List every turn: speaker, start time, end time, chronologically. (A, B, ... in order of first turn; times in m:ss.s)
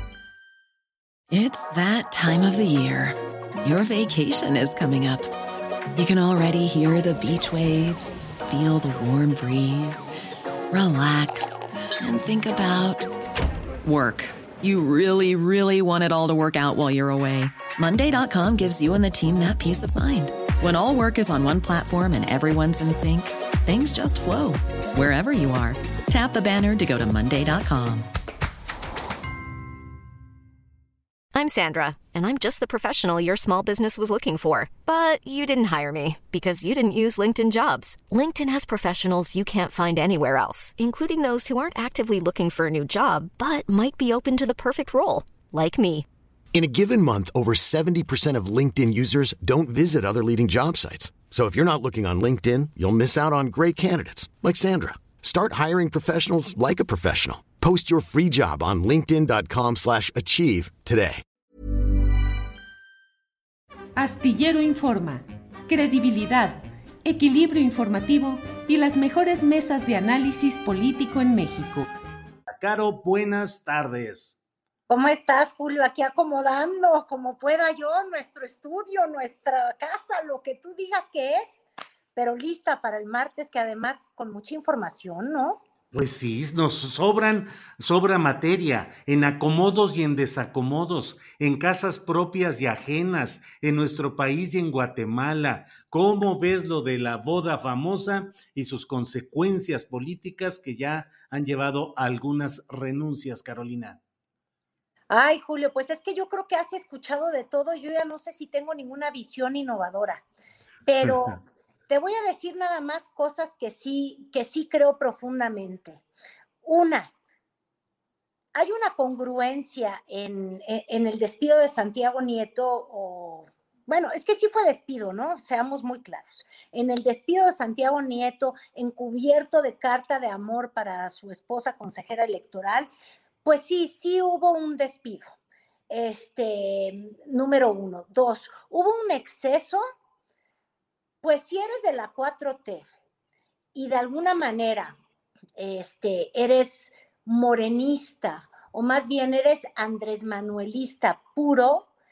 0:01.3-0:05.3 A
0:05.9-0:10.1 A
0:10.7-0:13.1 A
0:13.8-0:28.1 A
0:31.3-0:46.0 B
0:46.5-1:01.2 C
1:04.0-1:11.9 D
1:12.5-1:14.4 E
1:14.9-1:21.6 F
1:22.2-1:25.6 F
1:25.9-1:44.0 E
1:45.1-1:50.2 F
1:50.9-1:56.0 F
1:51.0-1:51.3 E
1:56.6-1:57.1 F
1:58.6-2:12.9 F
2:13.4-2:15.2 F
2:15.9-2:19.8 F
2:21.2-2:22.8 F
2:23.8-2:25.0 F
2:25.6-2:31.9 F